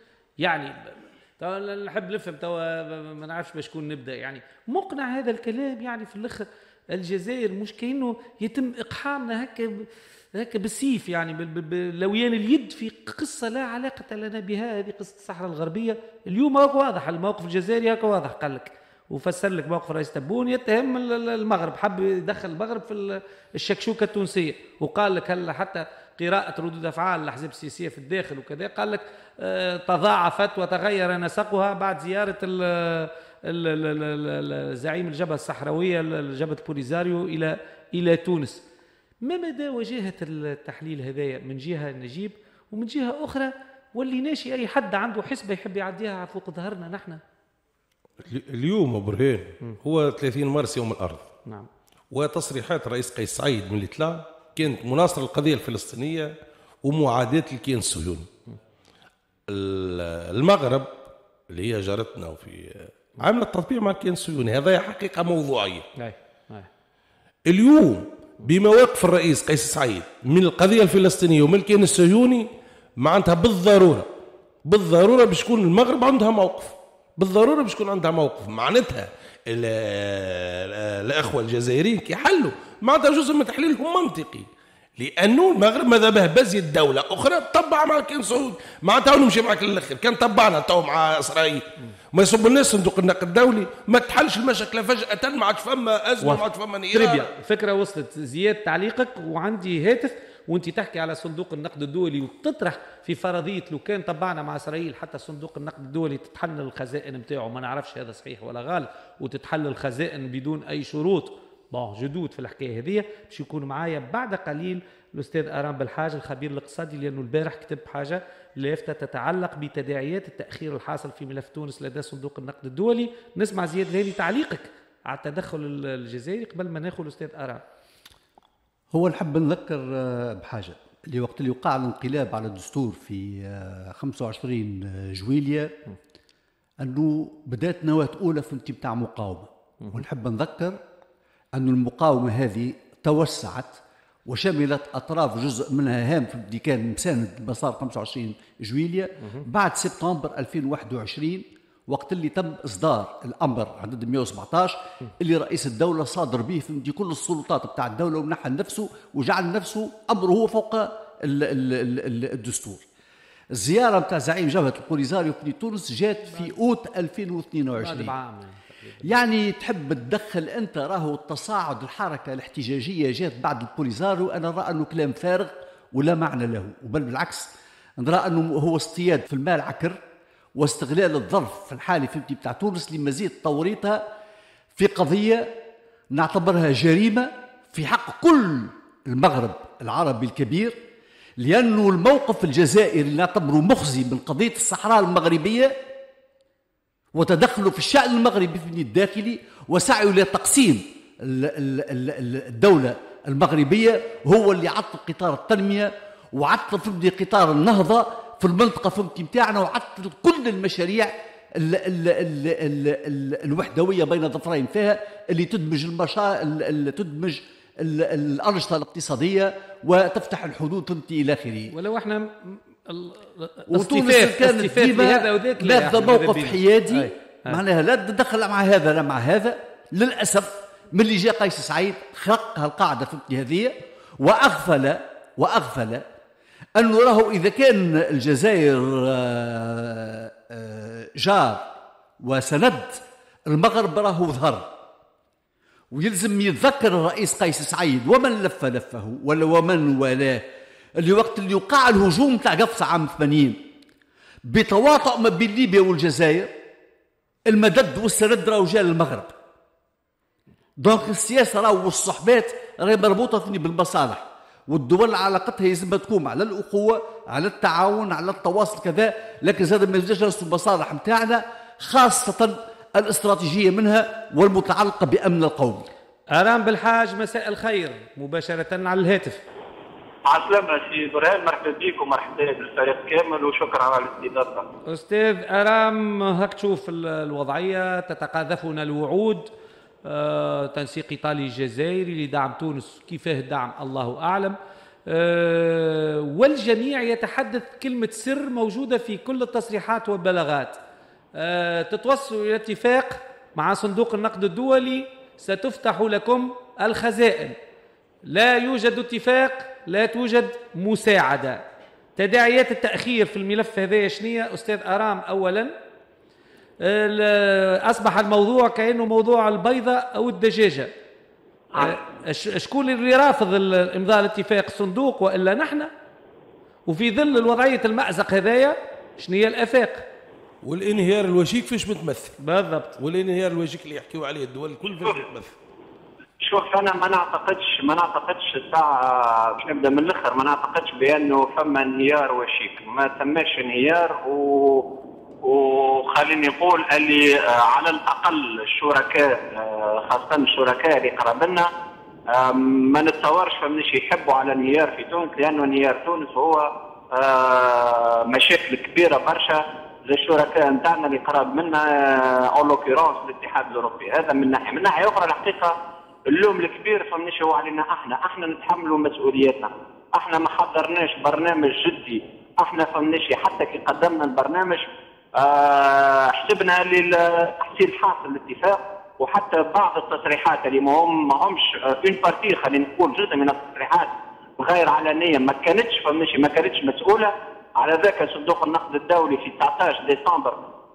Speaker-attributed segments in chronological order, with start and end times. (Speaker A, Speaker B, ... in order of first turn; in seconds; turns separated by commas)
Speaker A: 0.4-38.6, Speaker A: 39.2-47.2, Speaker B: 48.2-51.3, Speaker B: 52.1-58.3, Speaker B: 59.5-65.9, Speaker A: 66.0-66.7, Speaker B: 67.5-72.5, Speaker B: 73.0-74.1, Speaker B: 74.7-97.3, Speaker A: 96.2-127.6, Speaker C: 128.9-135.7, Speaker C: 136.8-140.8, Speaker C: 141.5-162.9, Speaker C: 163.5-168.1, Speaker A: 167.8-169.2, Speaker C: 169.1-180.0, Speaker C: 180.6-184.0, Speaker C: 184.8-185.5, Speaker C: 186.1-190.8, Speaker C: 191.4-195.8, Speaker C: 197.1-221.8, Speaker A: 221.7-227.6, Speaker C: 223.7-236.1, Speaker C: 236.8-244.7, Speaker C: 245.9-250.4, Speaker C: 251.0-253.6, Speaker C: 254.5-256.5, Speaker C: 257.5-259.4, Speaker C: 260.8-275.9, Speaker A: 276.3-279.4, Speaker D: 280.3-284.7, Speaker A: 284.9-289.5, Speaker A: 290.1-294.6, Speaker A: 295.1-300.8, Speaker A: 301.4-307.6, Speaker A: 308.3-311.6, Speaker A: 312.2-315.7, Speaker A: 316.8-320.9, Speaker A: 321.7-325.9, Speaker A: 326.9-330.0, Speaker B: 330.6-332.3, Speaker A: 332.4-333.0, Speaker B: 333.0-335.6, Speaker D: 336.4-344.9, Speaker D: 345.4-351.7, Speaker D: 352.3-365.8, Speaker D: 366.3-374.9, Speaker D: 375.4-390.6